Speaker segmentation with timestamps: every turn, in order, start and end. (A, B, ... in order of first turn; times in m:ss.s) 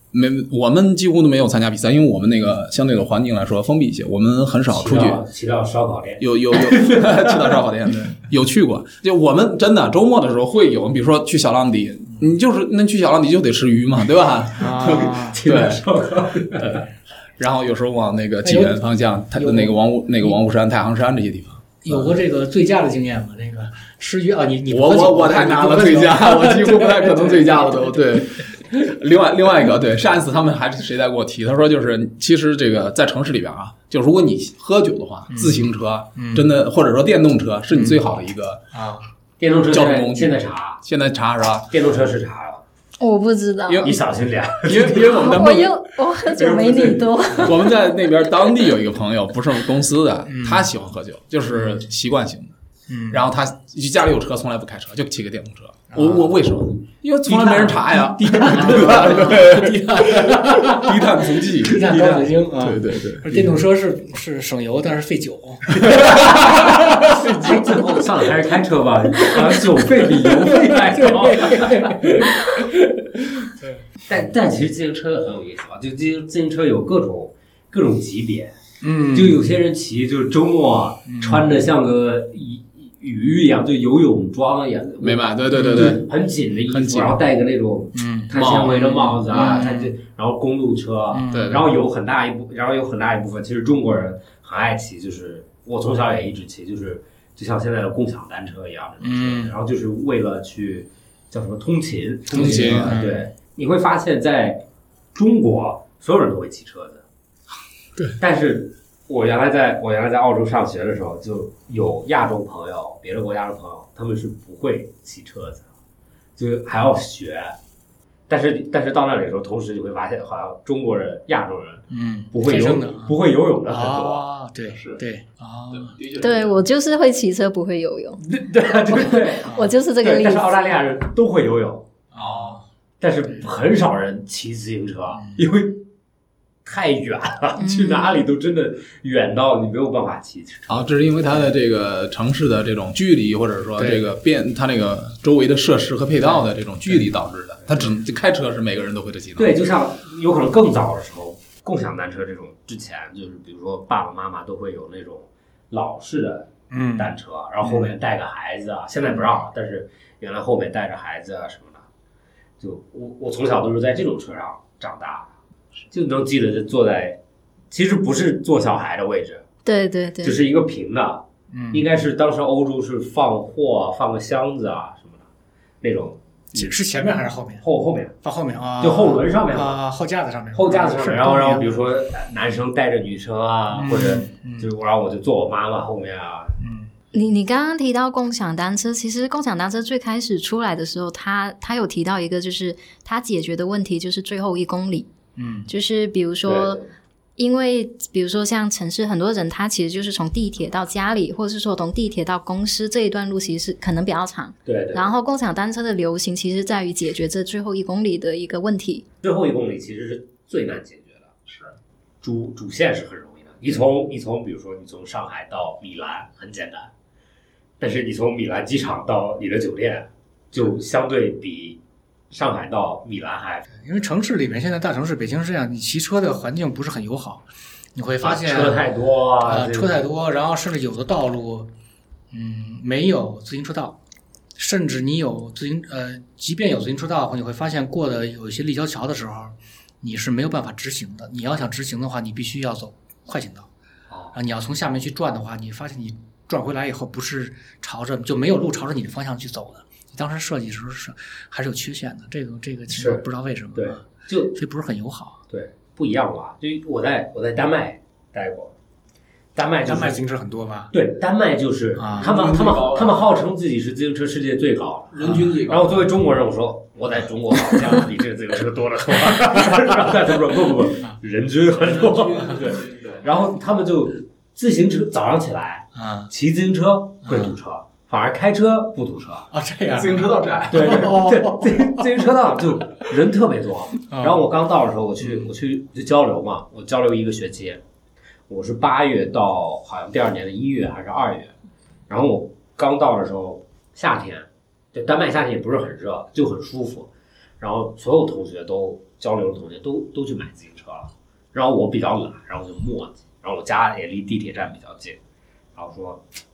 0:00.1-0:05.2 A
0:04.7-0:07.6 B
0:06.2-0:15.8 A
0:14.6-0:15.4 C
0:14.8-0:16.8 B
0:16.5-0:16.7 A
0:17.4-0:22.1 A
0:18.4-0:20.4 C
0:21.8-0:28.0 C
0:24.7-0:38.6 A
0:35.3-0:36.5 C
0:37.7-0:38.1 C
0:38.7-0:39.1 C
0:39.4-0:40.8 B
0:39.7-0:41.7 A
0:41.7-0:42.6 B
0:43.0-0:44.0 D
0:43.6-0:44.0 A
0:43.8-0:45.2 B
0:44.6-0:45.8 A
0:44.9-0:47.9 D
0:46.3-0:47.5 B
0:47.4-0:52.5 A
0:50.3-0:50.7 C
0:51.5-0:51.8 C
0:52.9-0:53.3 C
0:53.1-1:02.0 A
0:55.9-0:56.4 C
0:57.3-1:07.6 C
0:58.2-0:59.4 B
1:01.8-1:02.4 B
1:02.6-1:03.6 A
1:05.8-1:06.9 A
1:07.0-1:12.0 B
1:10.2-1:12.7 C
1:14.1-1:18.6 B
1:18.8-1:19.4 C
1:19.1-1:44.6 B
1:21.0-1:21.6 C
1:25.0-1:26.0 A
1:25.5-1:26.0 C
1:26.6-1:27.2 A
1:27.9-1:30.0 C
1:28.3-1:28.8 A
1:31.1-1:31.6 C
1:31.3-1:31.6 A
1:39.0-1:39.6 C
1:42.3-1:43.0 A
1:42.3-1:43.3 C
1:45.1-1:47.0 B
1:48.2-1:55.6 B
1:56.4-1:57.6 B
1:58.3-2:04.3 B
2:01.9-2:03.1 C
2:03.7-2:06.0 C
2:04.6-2:05.0 A
2:05.7-2:06.6 A
2:06.2-2:08.2 D
2:08.2-2:11.9 B
2:09.3-2:09.7 C
2:09.4-2:10.9 D
2:12.1-2:12.6 C
2:13.0-2:15.8 B
2:15.1-2:15.4 C
2:16.6-2:20.9 B
2:17.6-2:18.2 D
2:20.7-2:29.6 A
2:23.8-2:24.0 C
2:26.2-2:27.0 C
2:29.4-2:41.8 B
2:36.7-2:37.9 C
2:42.6-2:45.3 B
2:45.9-2:47.2 B
2:47.7-2:49.4 B
2:49.6-2:50.4 D
2:50.2-2:55.2 B
2:51.5-2:51.9 C
2:55.8-2:56.7 B
2:56.5-2:57.6 C
2:57.6-2:58.1 B
2:58.2-3:01.7 C
2:58.8-2:59.8 B
3:00.5-3:06.6 B
3:03.7-3:04.7 C
3:06.6-3:06.9 C
3:07.1-3:15.1 D
3:15.4-3:15.7 C
3:15.7-3:16.8 D
3:16.4-3:16.9 B
3:17.4-3:29.0 D
3:24.6-3:25.1 B
3:29.2-3:31.3 B
3:32.2-3:36.9 B
3:37.8-3:41.8 B
3:42.3-3:43.7 B
3:43.7-3:48.8 C
3:48.2-3:50.0 B
3:49.4-3:51.7 C
3:52.3-3:54.0 C
3:54.6-4:03.7 C
4:04.1-4:04.3 B
4:04.3-4:15.4 C
4:12.9-4:14.6 B
4:15.5-4:18.7 B
4:19.6-4:20.2 B
4:19.9-4:20.9 C
4:20.9-4:39.5 B
4:22.0-4:22.3 C
4:22.2-4:23.3 A
4:25.1-4:26.2 A
4:25.2-4:25.5 C
4:29.3-4:29.8 C
4:31.7-4:33.3 A
4:36.0-4:36.3 C
4:37.2-4:37.6 C
4:39.5-4:42.1 C
4:39.9-4:41.2 A
4:40.7-4:47.8 B
4:44.1-4:44.4 C
4:45.2-4:45.5 C
4:48.5-4:51.5 B
4:52.1-5:05.2 B
5:05.7-5:06.2 B